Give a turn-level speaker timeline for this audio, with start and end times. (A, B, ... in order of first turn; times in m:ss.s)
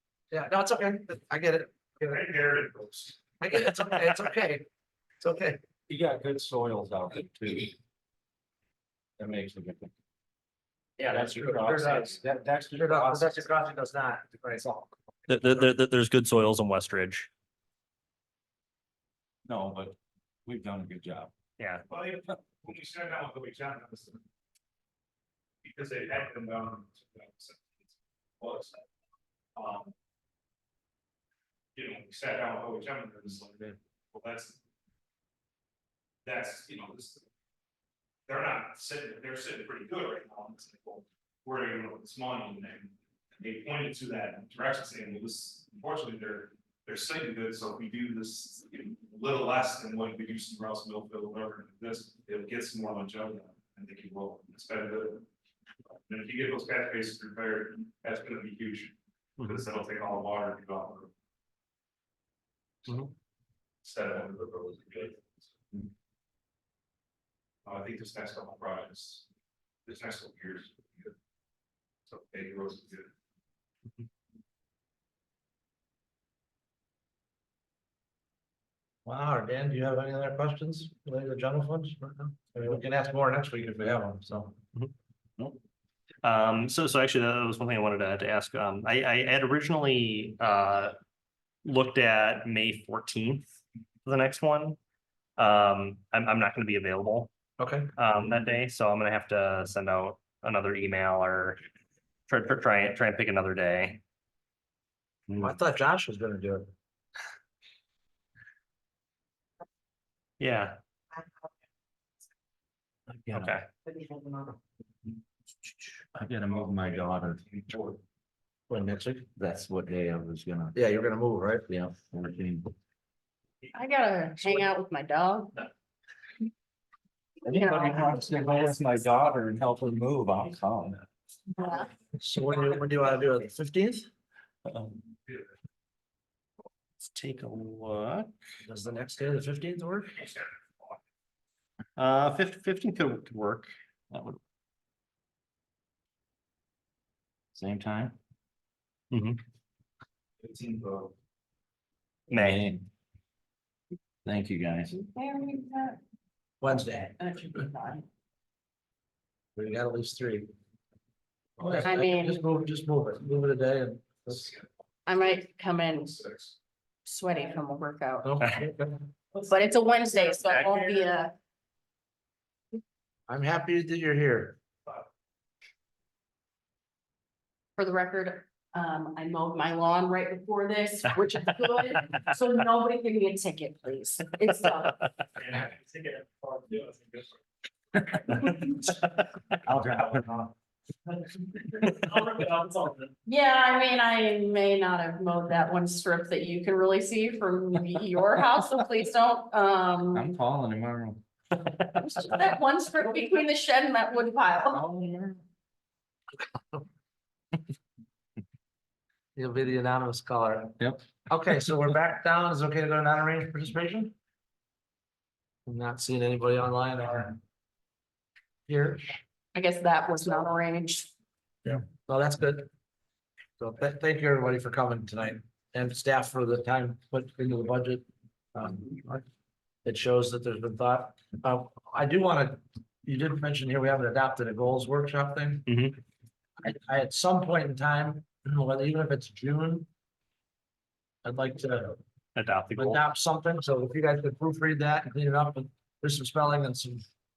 0:00.3-0:02.2 A
0:02.0-0:03.2 B
0:03.4-0:04.6 A
0:05.2-0:05.6 A
0:05.9-0:07.7 C
0:09.2-0:09.9 C
0:11.0-0:13.4 C
0:11.0-0:14.9 A
0:15.3-0:17.3 D
0:15.4-0:15.7 A
0:19.4-0:21.3 C
0:21.6-0:21.8 D
0:21.9-0:24.2 B
0:25.6-0:28.8 B
0:29.6-0:29.9 B
0:31.7-0:34.6 B
0:36.2-0:37.2 B
0:38.3-0:55.2 B
0:56.1-1:01.1 B
0:59.4-0:59.6 D
1:02.8-1:03.1 B
1:03.8-1:05.5 B
1:07.6-1:09.2 B
1:09.8-1:11.1 B
1:12.0-1:13.1 B
1:19.0-1:24.6 A
1:26.2-1:30.9 D
1:31.6-1:34.8 D
1:35.4-1:37.3 D
1:37.6-1:37.9 A
1:38.0-1:41.6 D
1:42.3-1:44.0 D
1:45.3-1:45.5 D
1:45.4-1:46.7 A
1:50.4-1:50.8 D
1:53.3-1:53.7 D
1:56.0-1:57.4 C
1:58.7-1:59.3 A
1:59.4-2:00.7 C
2:00.7-2:01.7 A
2:01.7-2:02.7 C
2:03.7-2:05.5 E
2:07.4-2:11.0 C
2:07.5-2:08.1 E
2:11.6-2:11.8 E
2:12.2-2:14.1 A
2:14.7-2:15.0 C
2:17.0-2:18.3 D
2:18.6-2:20.2 A
2:22.0-2:23.7 D
2:24.1-2:24.4 C
2:27.5-2:28.2 C
2:29.1-2:29.4 D
2:30.4-2:31.1 B
2:32.3-2:32.6 D
2:32.3-2:32.9 C
2:34.2-2:34.9 C
2:34.9-2:36.0 E
2:36.6-2:37.2 A
2:37.2-2:38.0 E
2:39.6-2:40.5 A
2:41.6-2:44.5 A
2:41.8-2:42.4 E
2:45.1-2:46.2 E
2:47.0-2:48.3 E
2:48.2-2:49.0 A
2:49.4-2:51.3 E
2:53.3-2:54.6 A
2:57.8-3:05.0 E
3:05.4-3:07.4 B
3:09.6-3:10.5 C
3:13.2-3:20.2 E
3:20.1-3:21.2 C
3:22.0-3:24.8 E
3:24.7-3:25.4 C
3:26.5-3:26.8 A
3:29.4-3:30.8 A
3:31.3-3:34.1 A
3:35.6-3:37.4 A
3:38.7-3:39.1 A
3:39.5-3:41.1 E
3:41.6-3:42.7 A
3:43.6-3:49.2 A
3:49.8-3:55.7 A
3:55.7-3:55.9 D
3:56.6-3:59.9 A
4:01.2-4:02.0 A
4:02.4-4:03.0 D
4:02.8-4:07.0 A